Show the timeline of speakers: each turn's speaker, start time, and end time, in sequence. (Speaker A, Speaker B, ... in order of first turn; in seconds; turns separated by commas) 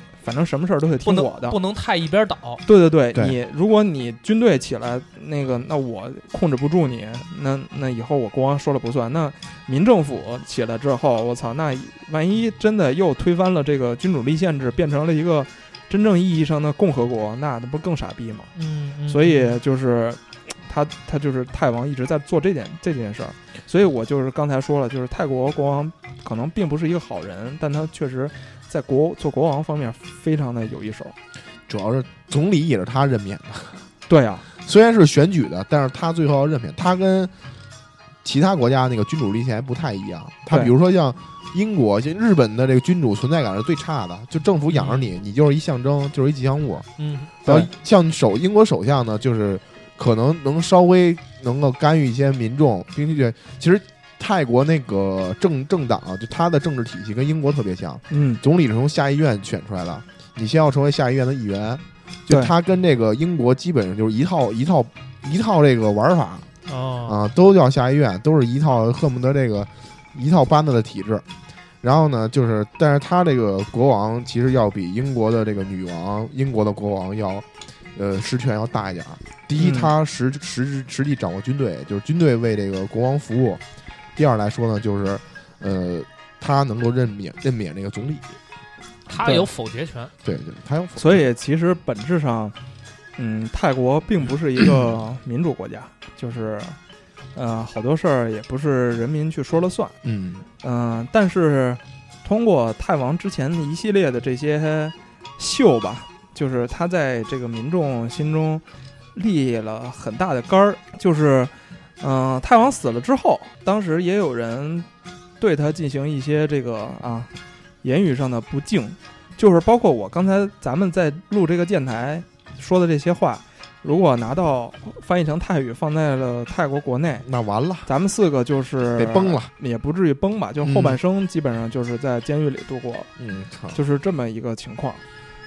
Speaker A: 0.2-1.6, Speaker B: 1.0-2.6, Speaker A: 2.6-18.5, Speaker B: 18.5-19.6, Speaker A: 19.1-31.1, Speaker C: 31.7-33.8, Speaker A: 34.1-34.5, Speaker C: 34.5-37.3, Speaker C: 38.2-46.9, Speaker B: 44.7-45.1, Speaker B: 47.0-47.3, Speaker A: 47.4-47.7, Speaker C: 47.4-66.5, Speaker A: 58.1-58.4, Speaker A: 62.3-62.5, Speaker B: 66.7-67.3, Speaker C: 67.1-71.2, Speaker C: 71.8-83.6, Speaker A: 79.6-79.9, Speaker C: 84.2-88.4, Speaker B: 89.1-90.1, Speaker A: 89.1-89.5, Speaker C: 90.2-91.3, Speaker A: 91.0-92.5, Speaker A: 93.2-96.8, Speaker A: 97.3-100.0, Speaker C: 100.0-100.5, Speaker A: 100.6-114.9, Speaker A: 115.4-127.3, Speaker C: 127.2-127.9, Speaker A: 127.8-133.1, Speaker C: 128.9-129.5, Speaker C: 130.6-131.0, Speaker C: 133.2-133.8, Speaker A: 133.7-135.0